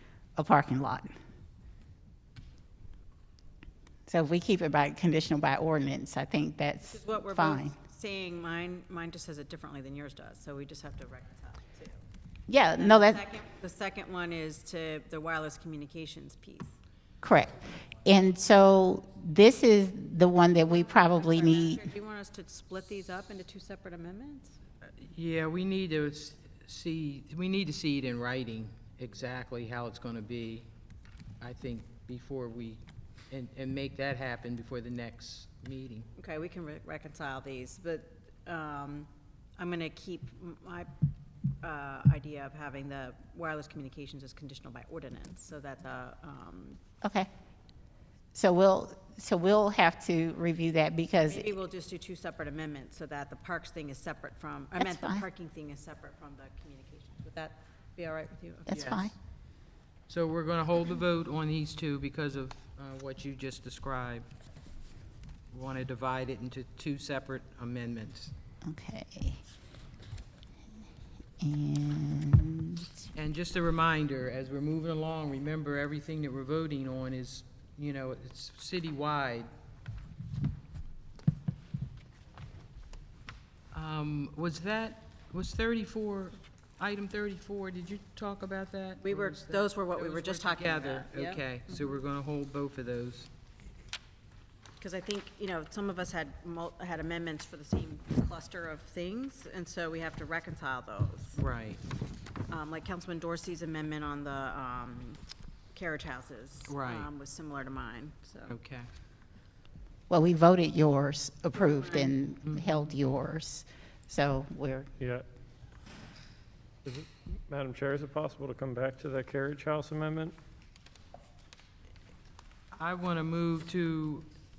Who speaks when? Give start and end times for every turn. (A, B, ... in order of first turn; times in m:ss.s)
0:00.4-0:01.1 A
0:04.1-0:07.8 A
0:06.8-0:12.0 B
0:12.5-0:13.2 A
0:12.8-0:16.7 B
0:17.2-0:21.8 A
0:20.8-0:24.6 B
0:25.0-0:30.7 C
0:31.4-0:36.1 C
0:36.2-0:40.9 B
0:41.6-0:46.8 B
0:47.0-0:47.3 A
0:48.3-0:51.5 A
0:51.3-0:59.1 B
0:54.8-0:55.2 A
0:58.7-0:59.1 A
0:58.7-0:59.0 C
1:00.1-1:04.3 C
1:05.5-1:08.3 C
1:08.6-1:09.4 A
1:11.4-1:13.1 A
1:13.1-1:19.5 C
1:23.7-1:33.3 C
1:29.0-1:32.0 B
1:34.8-1:41.4 B
1:41.4-1:41.8 C
1:42.5-1:45.2 B
1:45.7-1:48.6 B
1:46.7-1:47.1 C
1:48.5-1:48.9 C
1:50.1-1:54.9 A
1:51.5-1:52.1 B
1:52.4-1:52.8 C
1:55.0-1:55.2 D
1:56.8-2:00.4 D
2:02.7-2:04.3 C